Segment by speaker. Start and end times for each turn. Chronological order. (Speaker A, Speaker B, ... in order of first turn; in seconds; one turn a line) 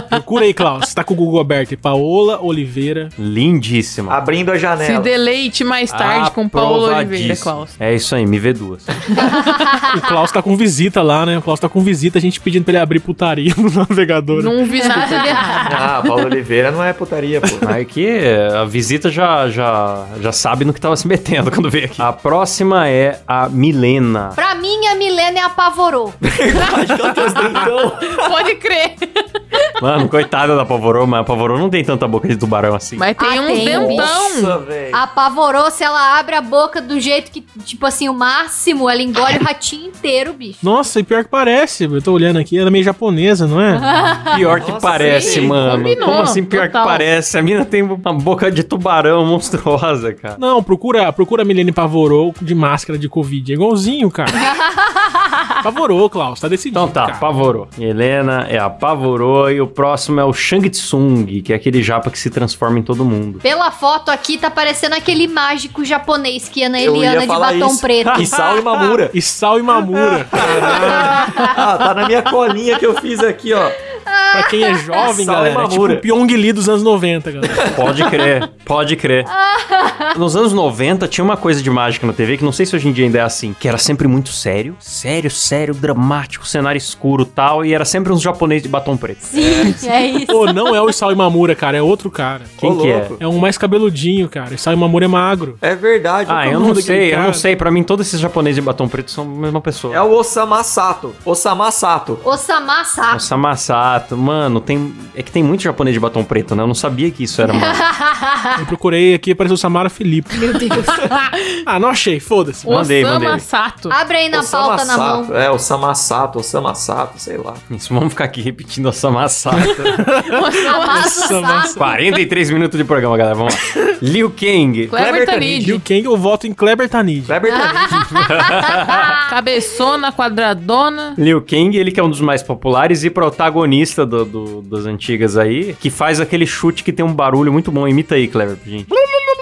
Speaker A: 0.1-3.1
Speaker B: 3.2-4.2
Speaker C: 4.1-5.1
Speaker D: 4.8-7.7
Speaker B: 5.9-9.2
Speaker E: 9.1-10.0
Speaker A: 9.7-14.5
Speaker D: 14.3-15.7
Speaker E: 14.8-15.8
Speaker C: 15.7-17.7
Speaker B: 17.6-24.4
Speaker E: 24.4-26.2
Speaker C: 26.2-28.4
Speaker D: 26.6-27.4
Speaker D: 28.0-29.7
Speaker B: 29.8-33.0
Speaker D: 33.0-34.6
Speaker E: 33.2-34.1
Speaker C: 33.5-35.0
Speaker E: 34.9-40.6
Speaker A: 40.6-44.4
Speaker E: 43.8-44.4
Speaker B: 44.3-50.4
Speaker C: 44.5-45.9
Speaker D: 44.9-47.0
Speaker A: 50.4-54.5
Speaker E: 54.3-55.4
Speaker A: 55.6-57.3
Speaker B: 56.7-63.4
Speaker E: 63.4-68.3
Speaker C: 66.8-69.2
Speaker B: 68.1-68.7
Speaker A: 69.1-71.4
Speaker C: 70.2-73.8
Speaker E: 73.9-75.2
Speaker A: 74.3-77.8
Speaker C: 75.1-76.1
Speaker B: 77.7-79.3
Speaker E: 79.3-80.2
Speaker B: 80.1-89.8
Speaker E: 89.2-90.6
Speaker A: 90.3-92.6
Speaker B: 92.6-93.2
Speaker C: 92.6-93.2
Speaker A: 93.2-95.6
Speaker C: 95.6-96.7
Speaker B: 96.3-100.0
Speaker A: 96.4-97.4
Speaker C: 99.9-102.2
Speaker E: 102.2-103.2
Speaker B: 103.1-107.8
Speaker E: 107.4-108.7
Speaker A: 108.6-110.8
Speaker E: 110.3-111.1
Speaker D: 111.1-111.5
Speaker A: 111.7-112.7
Speaker B: 112.7-113.4
Speaker D: 112.7-114.0
Speaker E: 113.9-115.3
Speaker C: 114.3-117.6
Speaker B: 117.7-120.0
Speaker A: 119.7-121.9
Speaker D: 120.2-121.3
Speaker E: 120.6-121.8
Speaker B: 121.8-125.0
Speaker D: 124.9-125.8
Speaker C: 124.9-125.7
Speaker A: 125.6-127.4
Speaker C: 127.3-128.3
Speaker E: 127.5-129.0
Speaker B: 128.1-129.2
Speaker D: 129.2-131.2
Speaker B: 131.2-138.9